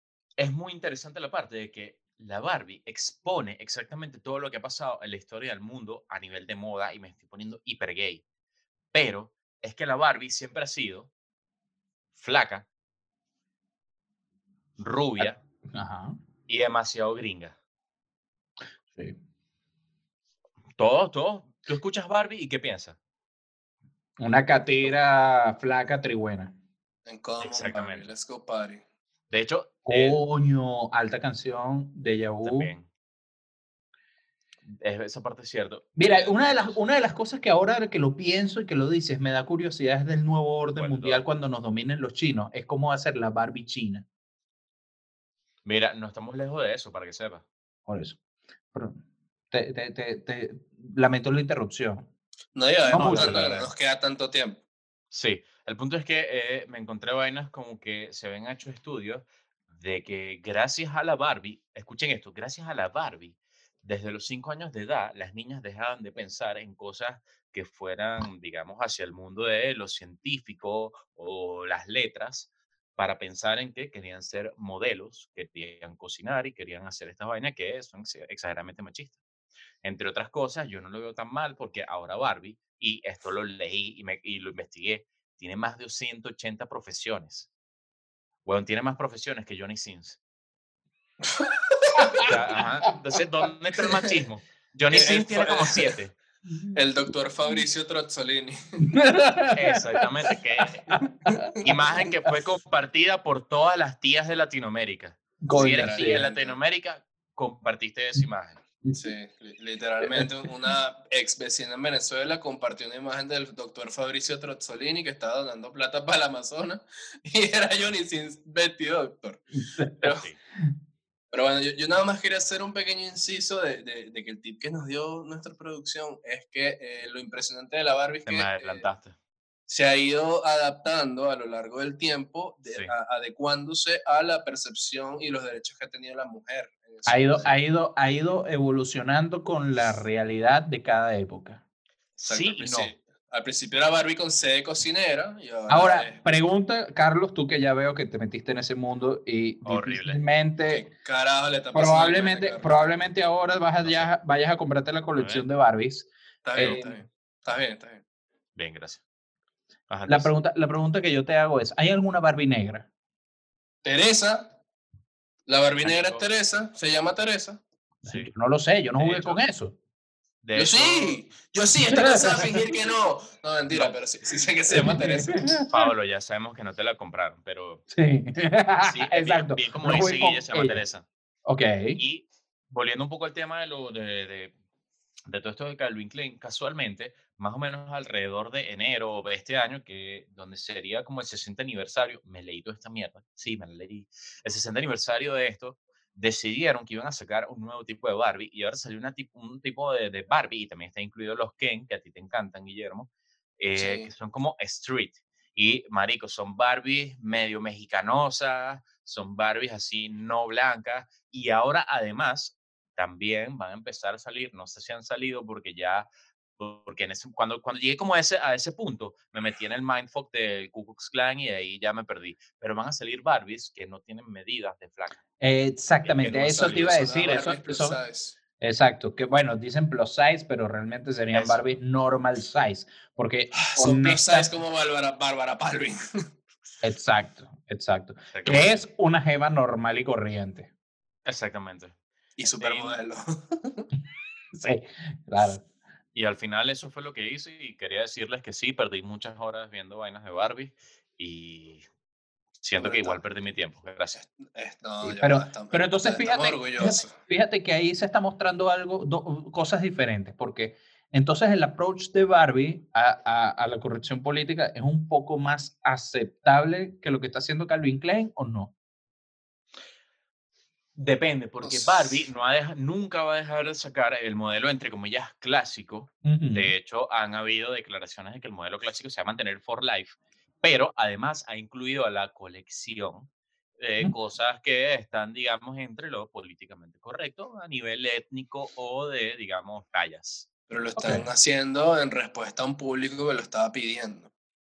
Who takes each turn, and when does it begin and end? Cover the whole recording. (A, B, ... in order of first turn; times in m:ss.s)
0:00.4-0:08.2 A
0:08.9-0:11.1 A
0:12.1-0:12.7 A
0:14.8-0:15.4 A
0:15.2-0:16.2 B
0:16.5-0:17.6 A
0:18.9-0:19.2 B
0:20.8-0:23.0 A
0:24.2-0:26.6 B
0:27.1-0:28.8 C
0:27.4-0:28.1 A
0:29.3-0:30.2 A
0:29.9-0:32.7 B
0:32.4-0:32.9 A
0:34.7-0:36.8 A
0:36.0-0:44.1 B
0:40.8-0:41.2 A
0:45.6-0:47.4 A
0:47.9-0:48.2 B
0:48.7-0:49.0 B
0:49.5-0:52.1 B
0:52.5-0:54.6 C
0:52.9-0:53.7 B
0:52.9-0:53.6 A
0:55.1-1:19.2 A
1:19.8-1:27.5 A
1:28.4-1:30.2 A
1:31.2-1:32.3 C
1:32.0-1:32.3 B
1:32.2-1:36.1 A
1:33.9-1:34.2 C
1:34.9-1:36.0 C
1:36.5-1:36.9 B
1:36.7-1:38.8 C
1:38.8-1:40.3 B
1:39.6-1:41.0 A
1:40.9-1:42.0 B
1:41.3-1:41.6 C
1:41.6-1:48.6 A
1:45.4-1:46.3 B
1:45.6-1:46.6 C
1:49.0-1:59.5 C
1:50.0-1:50.7 B
1:59.6-2:00.0 B
2:00.0-2:00.4 A
2:01.3-2:08.9 C
2:08.3-2:09.2 A
2:09.7-2:17.5 C
2:17.1-2:21.6 B
2:22.2-2:22.9 A
2:22.2-2:26.2 C
2:25.7-2:30.9 B
2:29.6-2:30.2 A
2:30.7-2:32.9 C
2:31.7-2:37.0 B
2:33.8-2:34.1 A
2:35.2-2:35.5 A
2:36.4-2:38.0 C
2:38.6-2:39.0 A
2:39.9-2:40.3 A
2:40.1-2:42.9 B
2:43.8-2:44.6 C
2:45.5-2:47.6 C
2:45.8-2:46.2 A
2:48.0-2:49.8 B
2:48.0-2:48.3 A
2:49.0-2:49.4 A
2:50.4-2:51.3 A
2:50.6-2:55.6 C
2:51.9-2:52.4 B
2:53.7-2:54.0 A
2:54.7-2:55.7 B
2:55.7-2:57.8 A
2:57.9-3:00.8 B
2:58.8-3:01.1 A
3:01.5-3:02.0 B
3:02.0-3:04.5 A
3:05.3-3:45.2 A
3:23.8-3:24.1 C
3:45.4-3:48.0 B
3:46.0-3:47.4 A
3:46.4-3:48.4 C
3:48.6-3:54.5 B
3:51.3-3:51.6 A
3:53.7-3:56.0 C
3:56.8-4:00.7 B
3:58.3-3:58.8 A
4:01.2-4:02.0 A
4:02.4-4:03.9 C
4:02.5-4:03.0 A
4:04.5-4:05.6 B
4:06.1-4:11.8 A
4:12.6-4:14.2 A
4:12.8-4:13.2 C
4:14.2-4:17.1 C
4:15.0-4:28.7 B
4:31.0-4:50.5 A
4:31.6-4:32.2 C
4:36.2-4:36.7 B
4:50.7-4:54.3 C
4:51.0-4:51.3 B